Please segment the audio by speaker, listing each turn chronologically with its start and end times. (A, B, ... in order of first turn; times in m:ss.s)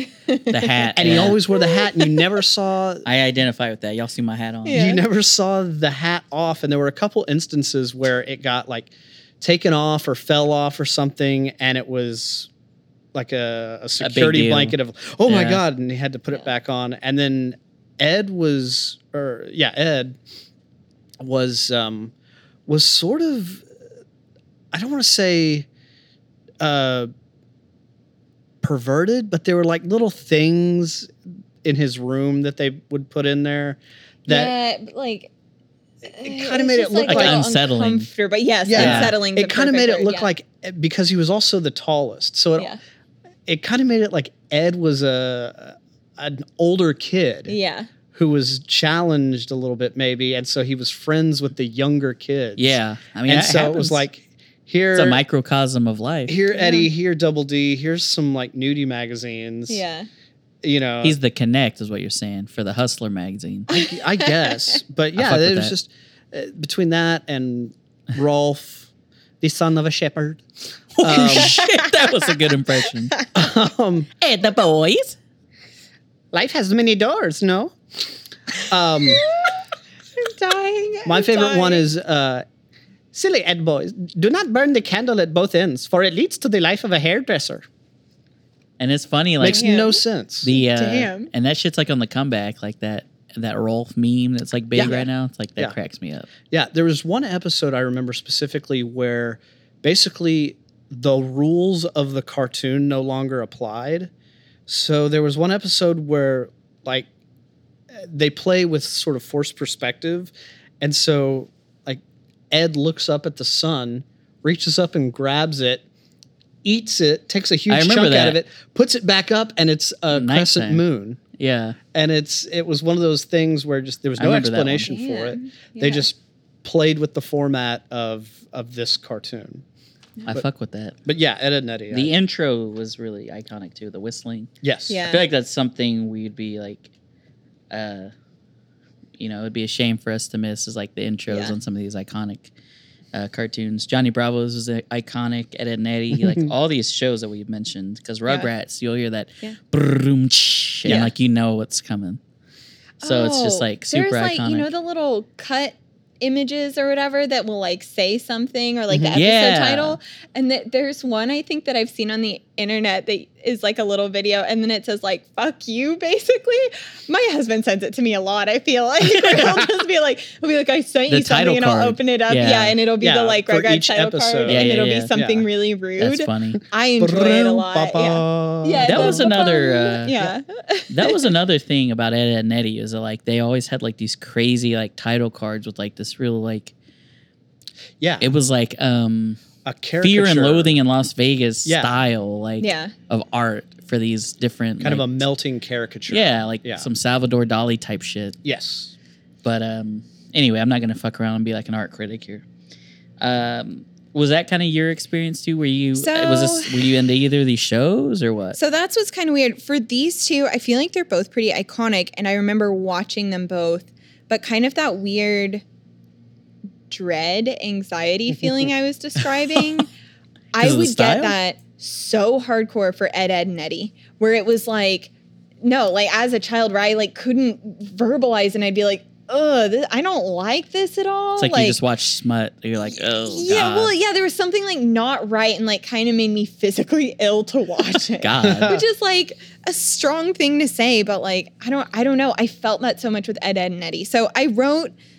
0:00.3-0:00.9 A
0:00.5-0:01.4 B
0:01.0-0:03.0 C
0:01.5-0:02.2 A
0:03.0-0:04.9 B
0:04.6-0:05.0 A
0:04.7-0:08.9 C
0:09.4-0:12.5 C
0:13.1-0:20.2 C
0:14.0-0:15.6 B
0:21.2-0:22.1 C
0:22.7-0:23.6 C
0:24.7-0:25.7 C
0:26.6-0:27.1 C
0:28.6-0:31.1 C
0:31.6-0:34.5 C
0:34.3-0:35.3 A
0:36.1-0:40.3 A
0:36.2-0:37.4 C
0:37.0-0:38.1 B
0:38.7-0:42.7 C
0:38.8-0:39.2 B
0:43.5-0:47.6 C
0:47.5-0:47.9 A
0:48.1-0:55.2 C
0:52.6-0:54.0 B
0:54.9-0:56.4 B
0:56.3-0:59.8 C
0:56.5-0:56.9 A
0:59.7-1:00.1 A
1:00.6-1:01.2 C
1:01.0-1:03.7 B
1:03.7-1:08.9 C
1:03.7-1:04.4 A
1:05.2-1:05.7 B
1:09.4-1:10.4 C
1:11.0-1:13.2 B
1:11.0-1:11.6 C
1:11.3-1:12.3 A
1:13.3-1:14.1 C
1:14.2-1:15.2 B
1:16.3-1:17.8 C
1:18.6-1:19.2 C
1:19.1-1:19.6 A
1:20.2-1:21.8 A
1:21.1-1:22.4 C
1:23.1-1:27.6 C
1:28.8-1:29.7 B
1:29.4-1:30.5 C
1:29.5-1:31.3 A
1:30.4-1:36.3 B
1:34.8-1:35.1 C
1:34.8-1:35.1 A
1:36.5-1:44.1 C
1:44.7-1:47.1 C
1:47.9-1:55.8 C
1:56.6-2:01.2 C
1:57.7-1:58.4 B
2:00.1-2:00.8 B
2:01.4-2:01.8 B
2:01.9-2:09.6 C
2:04.2-2:05.0 B
2:04.9-2:06.1 A
2:10.3-2:11.0 B
2:11.0-2:12.1 C
2:11.9-2:14.5 B
2:14.6-2:15.0 C
2:14.9-2:15.3 A
2:15.0-2:16.9 B
2:17.7-2:18.1 B
2:19.2-2:22.5 B
2:21.3-2:21.6 A
2:23.1-2:32.2 B
2:26.2-2:26.5 C
2:30.9-2:31.1 A
2:33.0-3:01.3 A
2:33.0-2:34.7 B
2:38.9-2:39.2 C
2:39.1-2:40.0 B
2:49.2-2:49.6 B
2:51.1-2:52.8 B
2:53.0-2:55.5 C
2:54.5-2:55.1 B
2:56.0-2:56.6 B
2:57.0-2:59.3 C
2:58.8-3:00.3 B
3:00.9-3:06.7 B
3:08.0-3:08.3 C
3:08.2-3:09.4 B
3:09.6-3:10.8 C
3:10.0-3:15.2 B
3:11.6-3:12.0 C
3:12.6-3:12.9 A
3:14.8-3:16.9 C
3:16.1-3:18.4 B
3:18.4-3:18.9 C
3:19.4-3:22.4 B
3:23.2-3:28.6 B
3:26.0-3:26.9 A
3:28.6-3:35.6 A
3:36.9-3:39.9 A
3:40.5-3:45.1 A
3:40.6-3:41.4 B
3:45.6-3:51.8 A
3:51.4-3:53.9 B
3:53.0-4:04.9 A
3:58.2-3:58.8 B
3:58.4-3:58.8 C